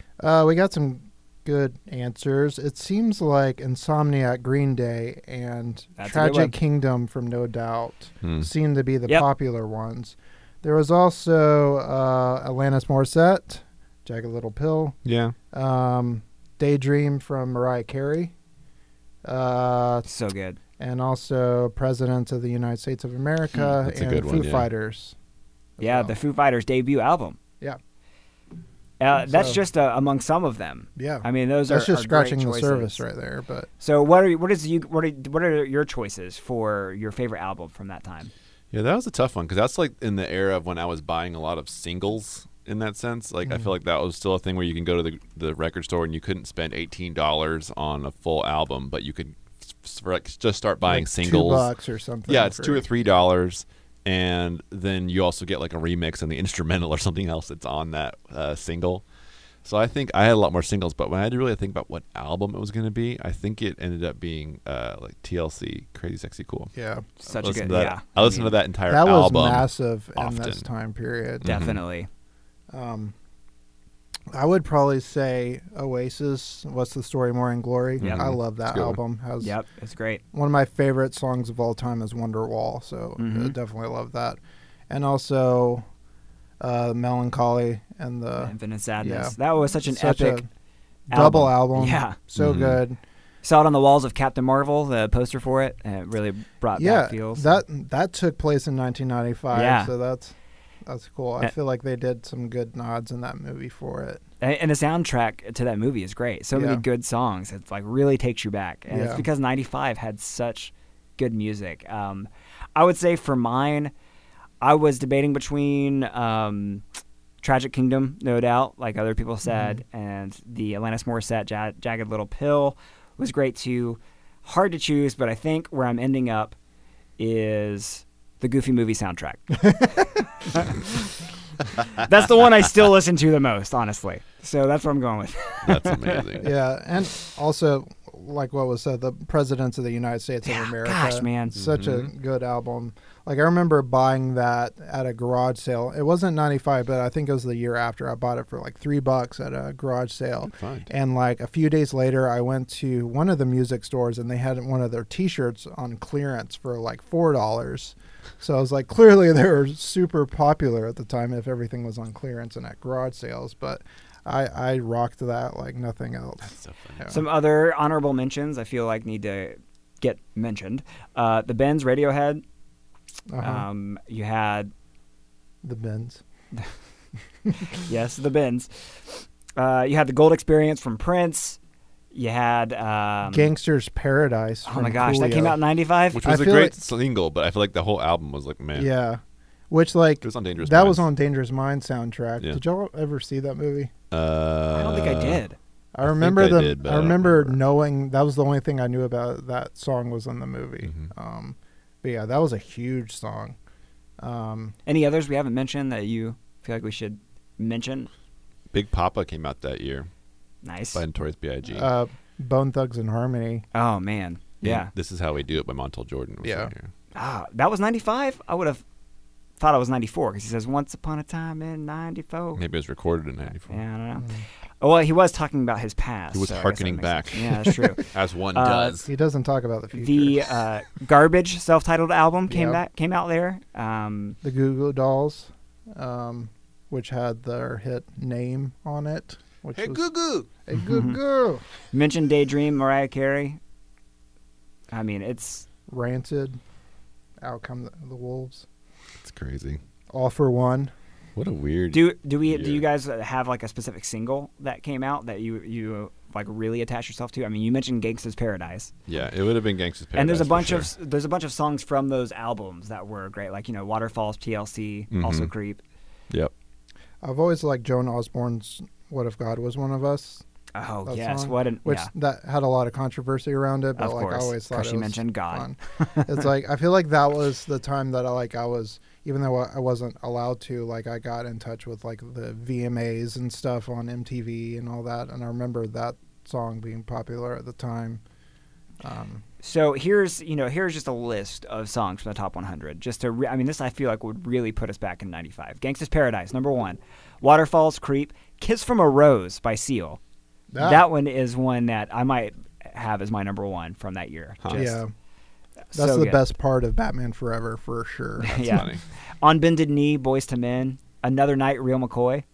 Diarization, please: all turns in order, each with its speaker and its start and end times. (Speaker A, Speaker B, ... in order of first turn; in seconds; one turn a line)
Speaker A: 0.2-15.0
Speaker B: 6.0-6.5
Speaker C: 8.2-8.5
Speaker C: 15.1-15.3
Speaker A: 15.5-18.3
Speaker A: 19.2-20.1
Speaker B: 20.1-20.6
Speaker A: 20.8-25.1
Speaker C: 23.7-24.7
Speaker A: 25.8-26.1
Speaker B: 25.8-27.4
Speaker B: 29.0-33.0
Speaker A: 29.2-29.6
Speaker A: 31.0-33.7
Speaker B: 33.8-38.3
Speaker C: 38.7-51.7
Speaker A: 50.9-52.9
Speaker C: 52.3-59.0
Speaker C: 59.6-66.7
Speaker A: 66.8-67.1
Speaker B: 67.2-68.6
Speaker C: 67.3-70.6
Speaker A: 68.9-71.5
Speaker C: 71.4-71.8
Speaker B: 71.4-72.1
Speaker A: 72.7-73.1
Speaker A: 74.3-79.5
Speaker C: 78.0-79.0
Speaker B: 79.4-80.2
Speaker A: 80.3-85.8
Speaker B: 83.2-83.6
Speaker A: 86.6-90.5
Speaker B: 88.4-90.4
Speaker B: 91.1-92.2
Speaker A: 91.1-93.0
Speaker C: 92.4-92.8
Speaker B: 93.4-97.6
Speaker A: 96.8-100.3
Speaker B: 99.5-99.9
Speaker A: 100.9-104.2
Speaker B: 104.4-113.9
Speaker A: 106.5-106.8
Speaker A: 108.9-109.2
Speaker B: 114.6-116.8
Speaker B: 117.4-126.6
Speaker B: 127.2-130.0
Speaker B: 130.5-130.8
Speaker B: 131.9-136.4
Speaker C: 135.6-136.5
Speaker A: 136.4-167.2
Speaker B: 140.5-141.6
Speaker C: 141.6-142.1
Speaker C: 150.5-150.9
Speaker C: 166.4-167.1
Speaker B: 167.1-172.4
Speaker A: 173.3-173.7
Speaker B: 173.4-174.7
Speaker A: 175.6-176.2
Speaker B: 177.8-181.6
Speaker B: 182.1-183.5
Speaker A: 183.3-185.6
Speaker B: 184.7-186.2
Speaker C: 186.1-188.9
Speaker A: 186.2-186.8
Speaker A: 188.8-193.9
Speaker C: 190.2-191.1
Speaker C: 194.1-195.4
Speaker B: 194.7-195.6
Speaker A: 195.9-203.6
Speaker C: 196.0-197.6
Speaker A: 204.2-204.8
Speaker B: 204.8-208.1
Speaker C: 208.7-210.1
Speaker B: 210.6-211.0
Speaker C: 210.9-211.9
Speaker A: 211.7-213.6
Speaker B: 213.7-214.9
Speaker C: 214.6-216.9
Speaker A: 216.4-216.7
Speaker B: 217.2-218.8
Speaker B: 219.6-222.6
Speaker C: 222.6-223.8
Speaker B: 223.7-224.3
Speaker B: 224.8-229.0
Speaker C: 226.3-229.1
Speaker A: 229.1-230.5
Speaker B: 229.9-234.4
Speaker A: 232.5-232.8
Speaker A: 234.4-241.6
Speaker C: 239.8-240.5
Speaker B: 241.9-243.6
Speaker B: 244.9-245.7
Speaker A: 245.9-246.6
Speaker A: 247.4-248.7
Speaker C: 249.2-249.8
Speaker A: 250.1-250.9
Speaker C: 251.4-252.8
Speaker B: 251.9-258.9
Speaker C: 259.1-260.9
Speaker B: 260.2-265.8
Speaker C: 265.1-265.5
Speaker A: 267.2-270.4
Speaker B: 270.8-272.1
Speaker A: 271.1-288.2
Speaker B: 274.0-276.4
Speaker A: 289.0-289.4
Speaker B: 289.6-300.2
Speaker A: 300.7-301.1
Speaker B: 300.8-305.0
Speaker A: 304.7-305.1
Speaker B: 305.9-306.4
Speaker A: 305.9-308.9
Speaker B: 308.4-308.9
Speaker C: 308.5-309.0
Speaker B: 309.4-312.4